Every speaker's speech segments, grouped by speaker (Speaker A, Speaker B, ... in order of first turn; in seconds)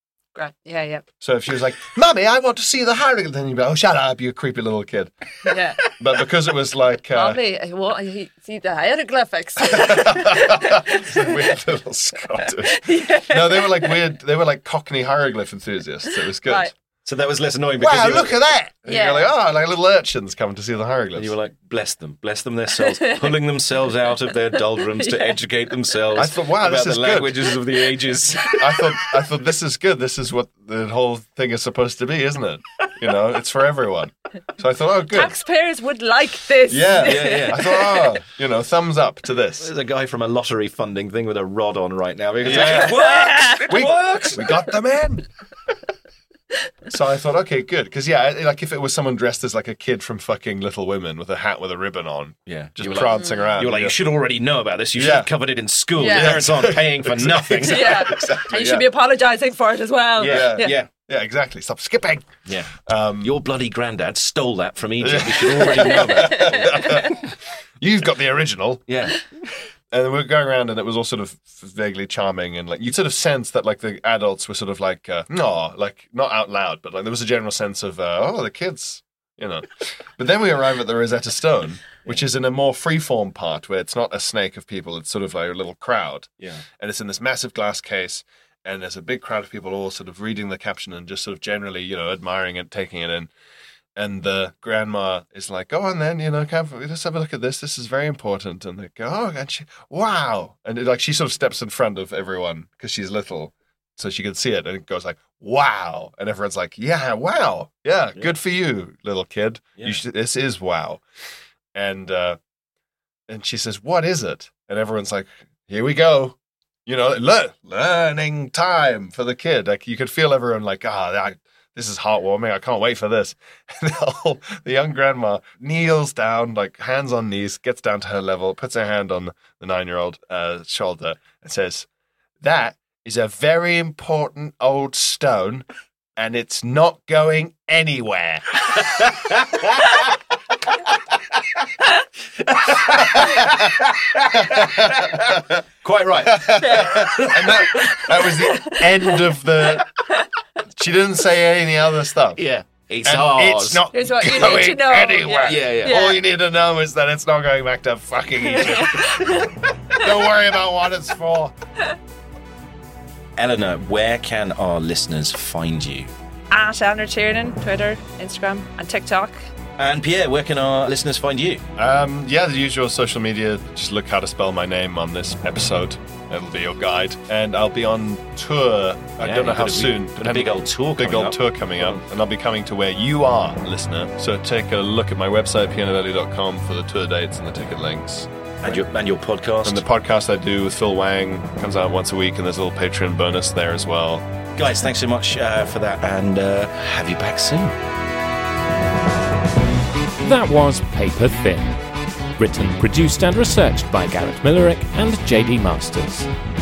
Speaker A: 0.3-1.1, 5.4-5.9, 7.1-11.5, 12.6-14.0, 16.1-16.7, 18.9-19.3, 22.8-23.4, 24.8-25.4, 35.1-38.0, 42.6-43.9, 53.0-53.5, 56.0-56.4, 57.6-60.8, 66.2-66.8, 146.6-149.3, 153.9-156.2, 158.4-160.1, 166.5-169.4
Speaker B: 1.2-7.4, 9.6-16.7, 17.8-21.3, 26.1-27.5, 28.5-35.4, 36.7-39.7, 42.4-43.0, 43.6-45.2, 46.9-54.0, 54.9-55.3, 56.1-58.9, 60.2-63.3, 65.0-68.8, 69.9-93.3, 94.0-111.0, 111.7-112.4, 113.3-131.9, 132.4-135.7, 136.2-138.4, 143.0-143.5, 144.3-145.6, 146.2-149.9, 150.7-152.4, 153.0-159.4, 159.9-161.5, 171.8-188.8, 189.6-194.3
Speaker C: 17.0-18.4, 21.1-28.6, 37.0-38.0, 39.6-44.7, 52.5-58.4, 60.2-60.9, 62.5-67.3, 68.9-69.2, 138.9-139.8, 142.4-148.3, 152.4-154.7, 155.4-156.0, 163.4-166.1, 169.8-171.6, 179.2-182.0, 188.6-189.8, 194.6-197.8
Speaker D: 200.2-201.8, 202.4-206.3